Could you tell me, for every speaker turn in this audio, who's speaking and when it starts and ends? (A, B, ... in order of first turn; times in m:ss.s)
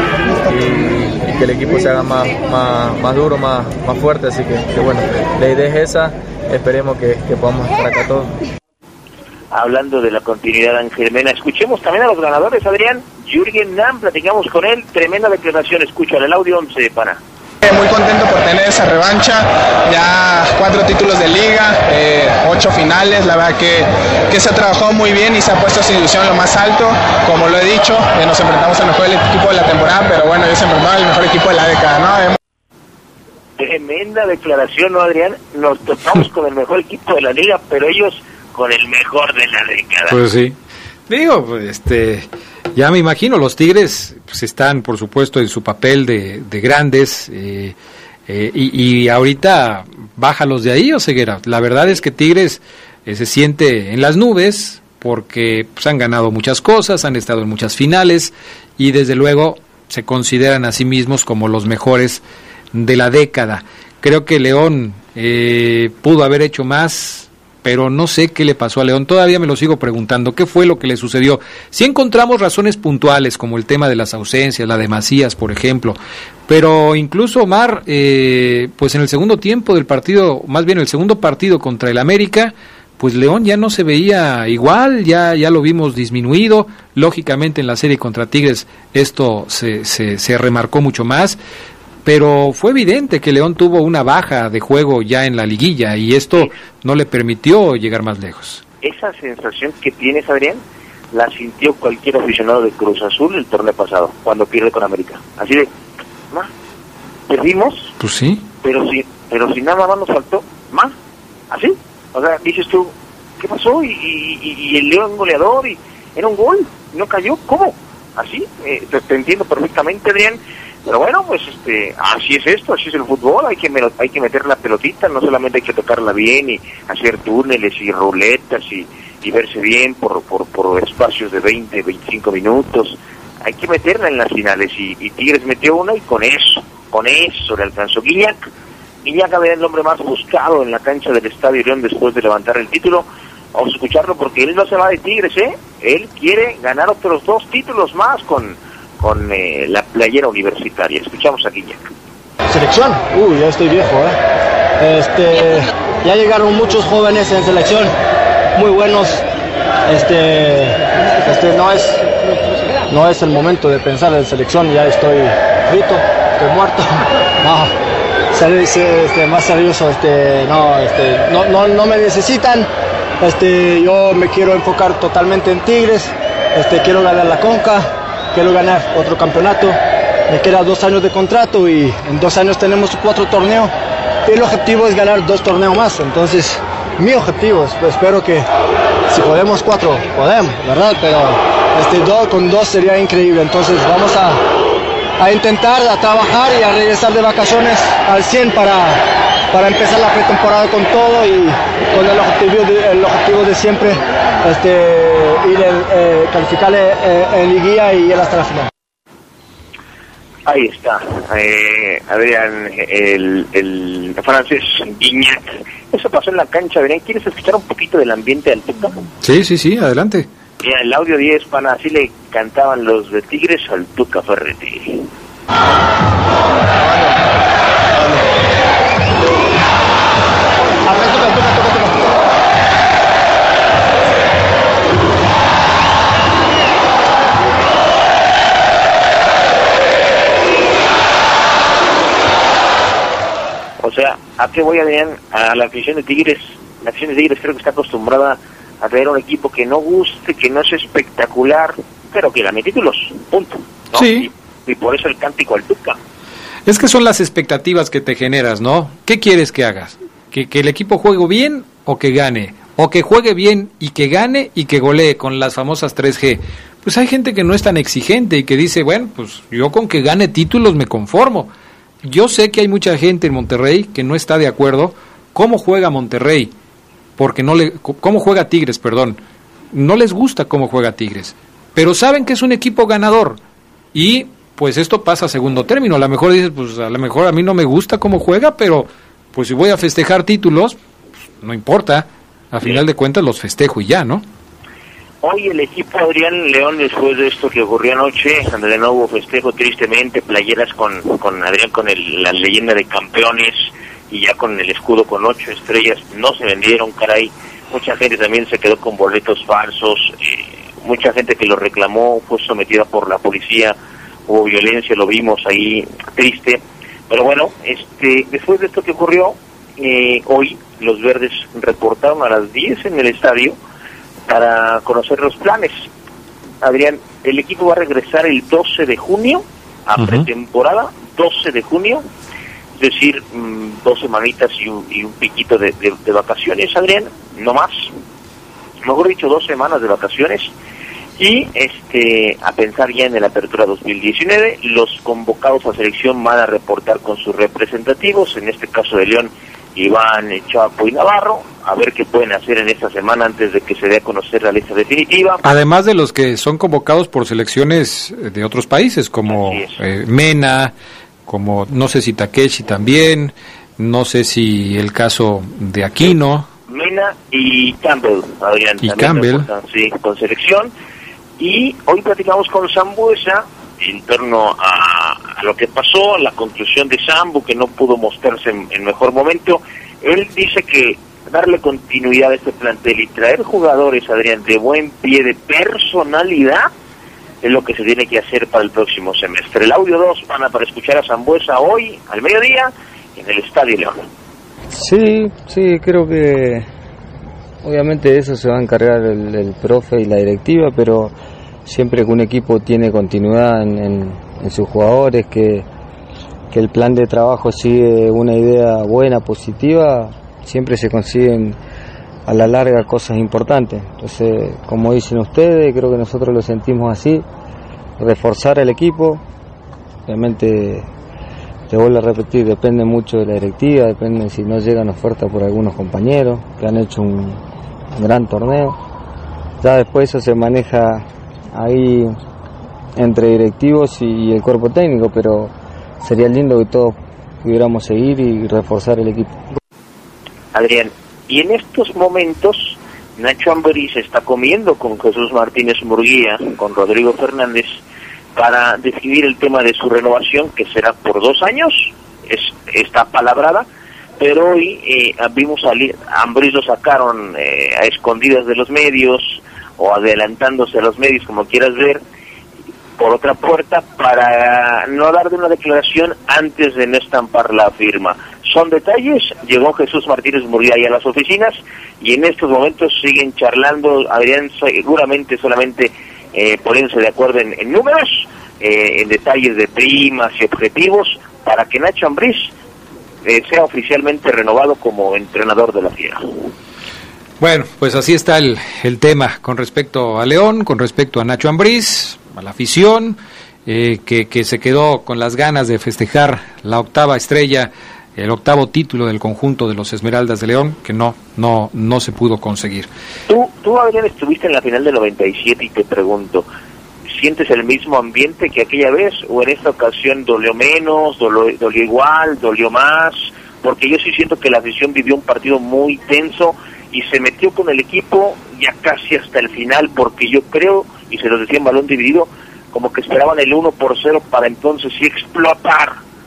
0:00.4-0:08.4 A
0:09.5-0:17.2 B
0:17.6-0:32.4 C
0:33.6-0:40.2 B
0:40.1-0:40.5 D
0:41.1-0:47.7 D
0:48.3-1:02.2 D
1:02.7-1:31.4 D
1:32.0-1:38.6 D
1:38.8-1:45.7 B
1:47.3-1:47.9 B
1:48.0-1:48.4 D
1:48.6-1:50.9 B
1:51.5-2:18.5 B
2:19.0-2:31.8 B
2:32.5-2:34.2 E
2:34.8-2:37.9 E
2:38.5-2:39.2 E
2:39.8-2:42.0 E
2:42.9-2:47.7 E
2:48.3-3:03.7 E
3:04.2-3:08.4 E
3:09.1-3:14.4 E
3:15.2-3:28.7 E
3:30.4-3:39.0 B
3:39.2-3:40.3 D
3:40.6-3:45.1 B
3:46.8-3:47.1 A
3:47.9-3:48.2 A
3:50.8-3:52.1 E
4:03.8-4:16.0 B
4:13.9-4:14.3 D
4:16.6-4:31.5 D
4:32.0-4:36.5 D
4:37.2-4:39.2 D
4:39.7-4:43.4 D
4:43.9-4:50.8 D
4:51.4-4:54.2 D
4:55.2-5:13.7 B
5:14.3-5:23.6 B
5:24.3-5:25.8 B
5:26.6-5:32.0 B
5:30.0-5:30.3 D
5:32.8-5:37.9 B
5:38.8-5:40.5 B
5:41.2-5:55.4 B
5:55.4-6:00.7 D
5:59.3-5:59.8 B
6:01.3-6:06.5 D
6:06.7-6:10.7 B
6:08.8-6:09.5 D
6:11.4-6:26.7 B
6:27.4-6:34.0 B
6:34.7-6:36.7 F
6:37.6-6:41.1 F
6:41.6-6:45.6 F
6:46.5-6:51.6 F
6:52.3-6:57.2 F
6:58.0-6:59.2 F
7:00.1-7:00.9 F
7:01.7-7:07.4 F
7:07.9-7:08.8 F
7:09.6-7:12.2 F
7:13.0-7:19.4 F
7:20.5-7:27.8 B
7:28.3-7:33.6 B
7:34.2-7:42.0 B
7:43.0-8:02.5 B
8:03.2-8:06.2 B
8:07.4-8:22.9 D
8:23.3-8:26.4 B
8:27.1-8:46.0 B